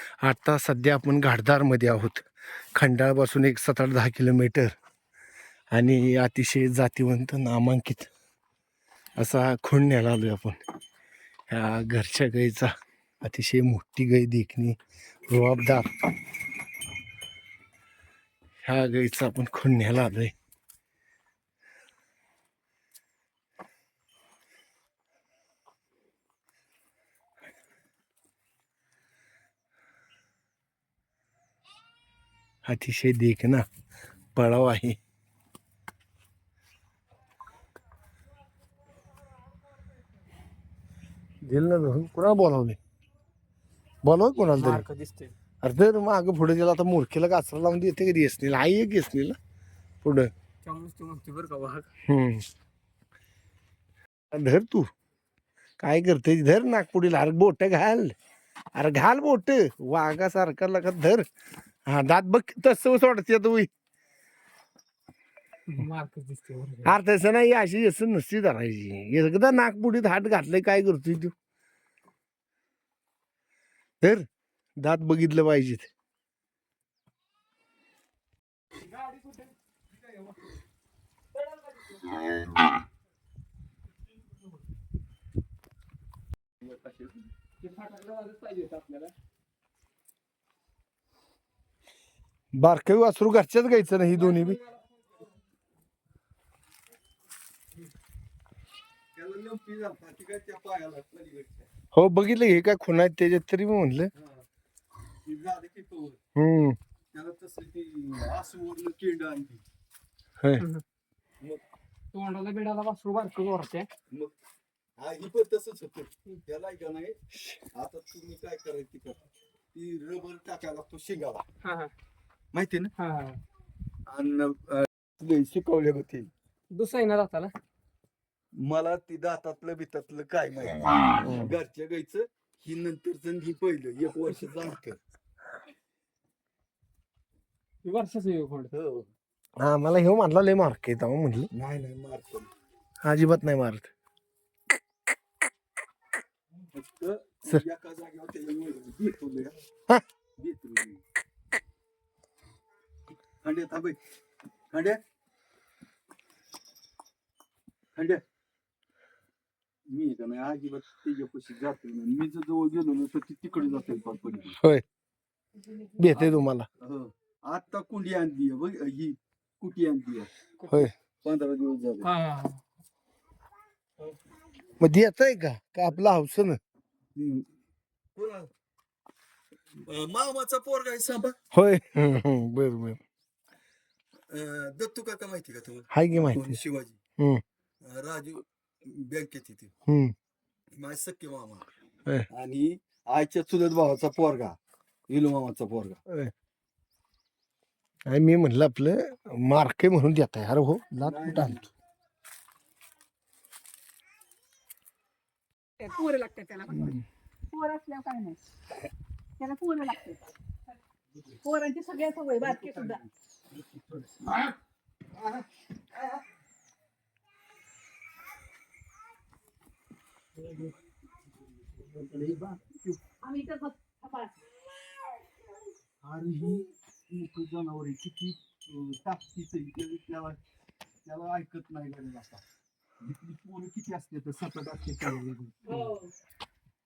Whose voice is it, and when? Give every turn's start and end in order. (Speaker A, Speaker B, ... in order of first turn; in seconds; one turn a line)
Speaker A: 0.2-4.7
Speaker A: 5.7-8.1
Speaker A: 9.2-10.6
Speaker A: 11.5-12.7
Speaker A: 13.2-14.8
Speaker A: 15.3-15.9
Speaker A: 18.6-20.3
Speaker A: 32.6-33.6
Speaker A: 34.3-35.0
Speaker A: 41.5-42.8
Speaker A: 44.0-44.8
Speaker B: 44.6-45.3
Speaker A: 45.6-49.4
Speaker A: 50.0-50.3
Speaker B: 50.6-51.9
Speaker A: 52.1-52.4
Speaker A: 54.3-54.9
Speaker A: 55.8-58.1
Speaker A: 58.7-61.2
Speaker A: 61.9-63.7
Speaker B: 65.7-67.0
Speaker A: 66.8-71.3
Speaker A: 74.8-75.9
Speaker C: 86.6-87.2
Speaker B: 87.6-89.1
Speaker A: 92.5-94.6
Speaker B: 94.2-94.6
Speaker C: 99.1-101.7
Speaker A: 101.9-104.1
Speaker C: 104.1-104.5
Speaker C: 105.2-106.2
Speaker A: 106.3-106.8
Speaker C: 107.1-109.6
Speaker B: 112.1-113.9
Speaker C: 115.0-117.2
Speaker C: 117.7-119.2
Speaker C: 119.7-121.4
Speaker B: 121.6-121.9
Speaker C: 122.5-122.9
Speaker B: 123.0-123.4
Speaker C: 124.1-126.3
Speaker B: 126.7-127.5
Speaker C: 128.6-135.0
Speaker A: 131.2-131.5
Speaker B: 137.8-138.7
Speaker C: 138.7-139.1
Speaker A: 139.6-141.5
Speaker C: 141.5-142.5
Speaker A: 143.0-143.9
Speaker C: 146.7-149.5
Speaker C: 150.4-151.0
Speaker C: 153.4-154.0
Speaker C: 154.7-155.0
Speaker C: 157.9-158.2
Speaker C: 159.9-164.6
Speaker A: 164.6-164.8
Speaker A: 165.9-166.7
Speaker C: 166.8-170.3
Speaker C: 171.2-172.1
Speaker B: 172.0-172.6
Speaker A: 174.8-176.6
Speaker C: 177.2-177.5
Speaker C: 178.2-178.5
Speaker C: 179.8-181.4
Speaker A: 181.5-183.0
Speaker C: 184.3-187.0
Speaker A: 185.9-186.6
Speaker C: 187.8-189.7
Speaker A: 189.9-190.1
Speaker C: 190.7-191.7
Speaker C: 192.3-194.6
Speaker C: 195.1-196.0
Speaker A: 198.1-201.6
Speaker C: 201.0-201.7
Speaker D: 205.8-206.9
Speaker A: 206.7-207.0
Speaker D: 207.5-208.4
Speaker D: 209.4-210.3
Speaker D: 211.4-213.0
Speaker C: 212.4-214.4
Speaker C: 221.9-223.0
Speaker D: 223.2-224.3
Speaker C: 226.0-230.4
Speaker C: 231.0-232.4
Speaker C: 233.0-235.9